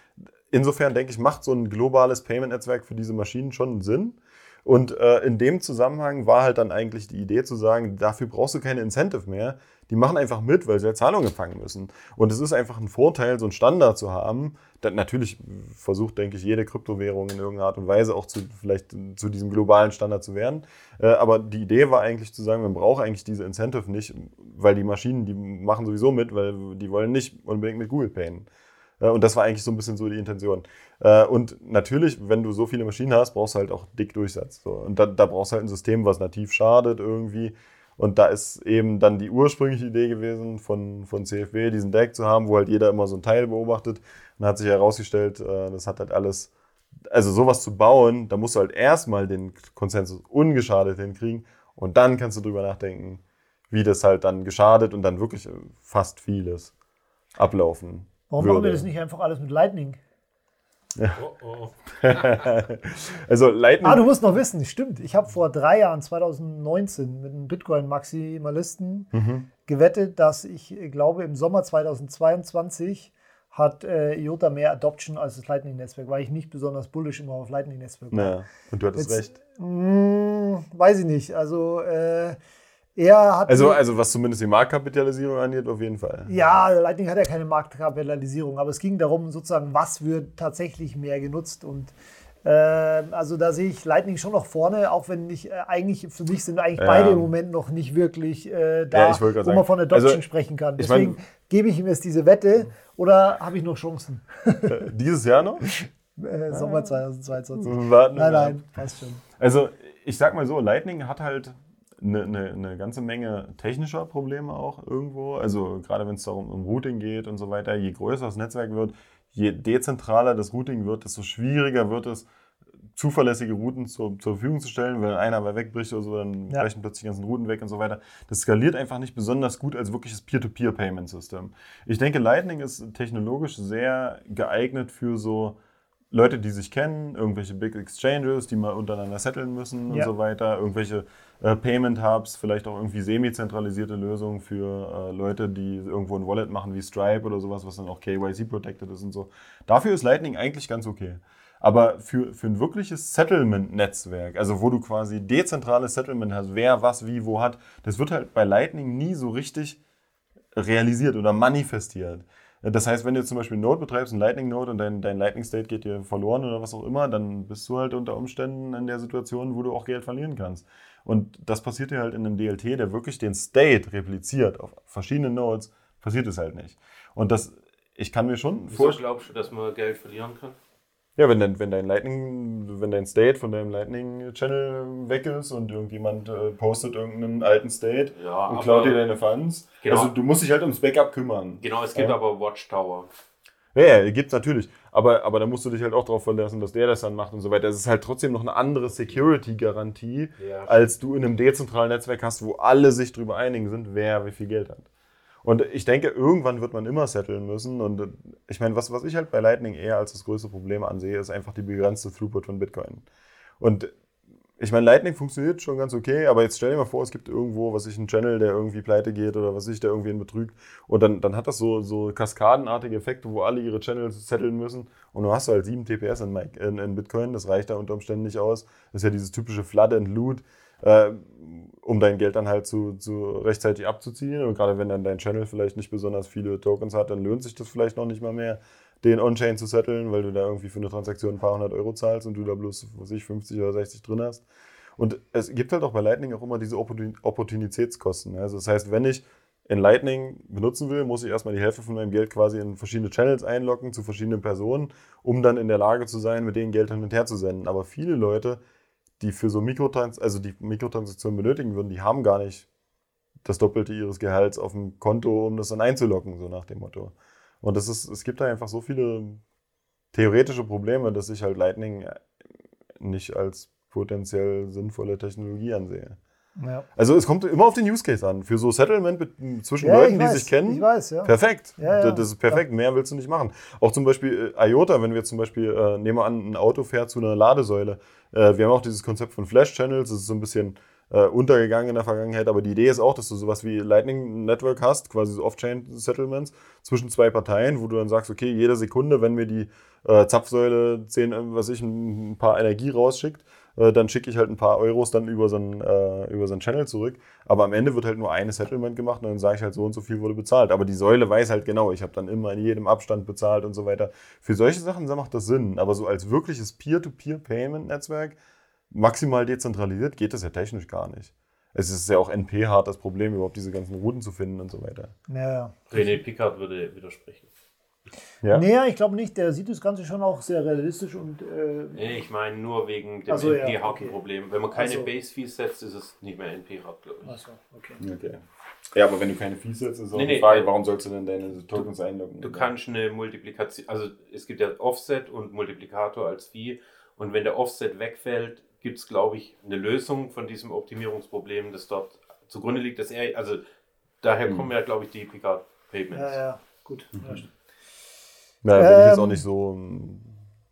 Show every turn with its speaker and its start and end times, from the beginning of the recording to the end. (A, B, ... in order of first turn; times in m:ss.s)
0:00.5-0:28.5 A
0:29.0-0:46.5 A
0:47.1-0:56.7 A
0:57.4-0:58.8 A
0:58.3-1:00.0 B
1:01.2-1:02.5 C
1:02.0-1:04.1 A
1:03.8-1:09.1 B
1:09.1-1:09.5 A
1:09.7-1:18.4 B
1:18.1-1:19.4 A
1:19.0-1:22.4 B
1:23.0-1:23.8 B
1:23.5-1:26.4 A
1:26.3-1:31.9 B
1:32.4-1:44.8 B
1:36.8-1:37.3 A
1:38.9-1:40.2 A
1:40.8-1:41.2 A
1:44.7-1:45.7 A
1:45.7-1:49.2 B
1:46.5-1:47.0 A
1:47.6-1:48.7 A
1:49.4-2:02.3 A
2:03.0-2:15.6 A
2:16.1-2:39.8 A
2:40.6-2:59.0 A
2:58.7-3:00.6 C
3:01.2-3:12.2 A
3:08.2-3:09.0 C
3:09.8-3:10.1 C
3:11.6-3:13.1 C
3:13.8-3:24.9 A
3:20.4-3:20.8 C
3:25.4-3:33.0 A
3:33.6-3:33.9 A
3:34.6-4:04.4 A
4:05.0-4:18.6 A
4:19.2-4:22.7 A
4:23.4-4:29.4 A
4:30.1-4:32.3 A
4:33.0-4:36.2 A
4:36.6-4:36.8 B
4:37.0-5:18.4 A
4:39.8-4:42.6 B
5:18.9-5:25.1 A
5:25.3-5:26.2 B
5:25.9-5:27.5 C
5:28.5-5:32.2 B
5:32.0-5:37.3 C
5:33.3-5:34.1 B
5:34.8-5:35.1 B
5:37.2-5:38.0 B
5:38.0-5:38.4 A
5:38.9-5:42.7 A
5:40.1-5:40.7 C
5:42.4-5:53.6 C
5:54.2-5:56.4 C
5:56.1-5:57.4 B
5:57.2-5:57.4 A
5:58.6-6:00.3 A
5:58.8-5:59.4 B